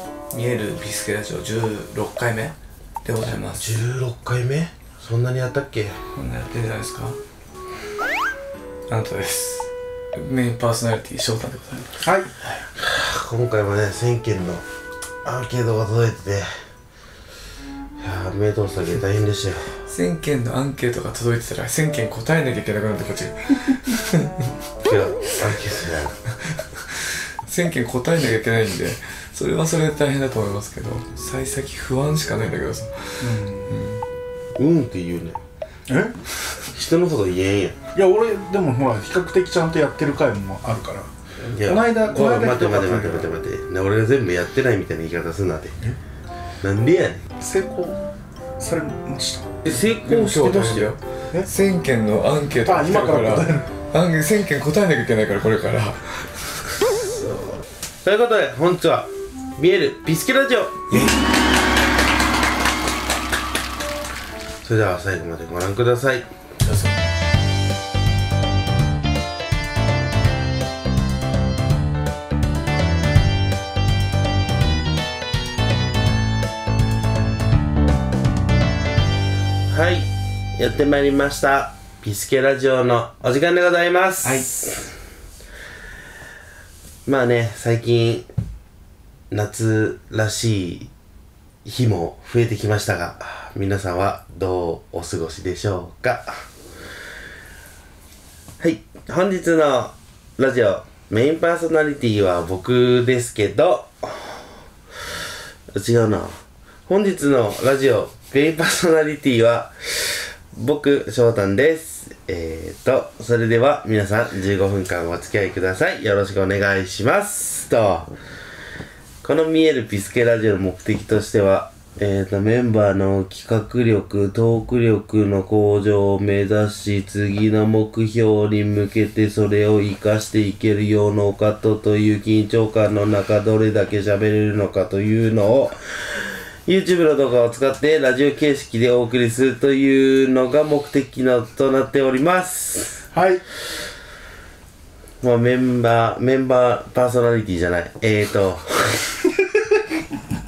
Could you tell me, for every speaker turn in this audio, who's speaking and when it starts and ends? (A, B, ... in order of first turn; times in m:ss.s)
0:00.3-0:03.8 A
0:03.5-0:05.9 B
0:06.1-0:07.2 A
0:08.9-0:11.9 A
0:12.0-0:12.3 C
0:12.7-0:14.6 B
0:15.2-0:16.5 B
0:18.0-0:19.8 B
0:19.8-0:24.5 A
0:24.8-0:26.2 B
0:27.4-0:34.0 A
0:33.2-0:33.7 C
0:34.6-0:35.4 B
0:35.9-0:36.2 C
0:36.7-0:37.8 B
0:37.9-0:41.1 C
0:41.5-0:45.8 B
0:41.6-0:43.3 C
0:46.6-0:47.2 B
0:47.4-0:48.0 C
0:48.6-0:49.5 C
0:49.6-0:50.9 B
0:49.7-0:56.6 A
0:52.6-0:53.6 C
0:57.0-1:01.1 B
1:04.6-1:06.3 B
1:19.7-1:24.7 B
1:24.2-1:24.7 A
1:27.0-1:28.3 B
1:29.3-1:30.9 B
1:31.6-1:36.4 B
1:38.6-1:44.4 B
1:45.8-1:58.1 B
1:59.2-2:23.0 B
2:23.1-2:23.4 C
2:25.2-2:29.1 B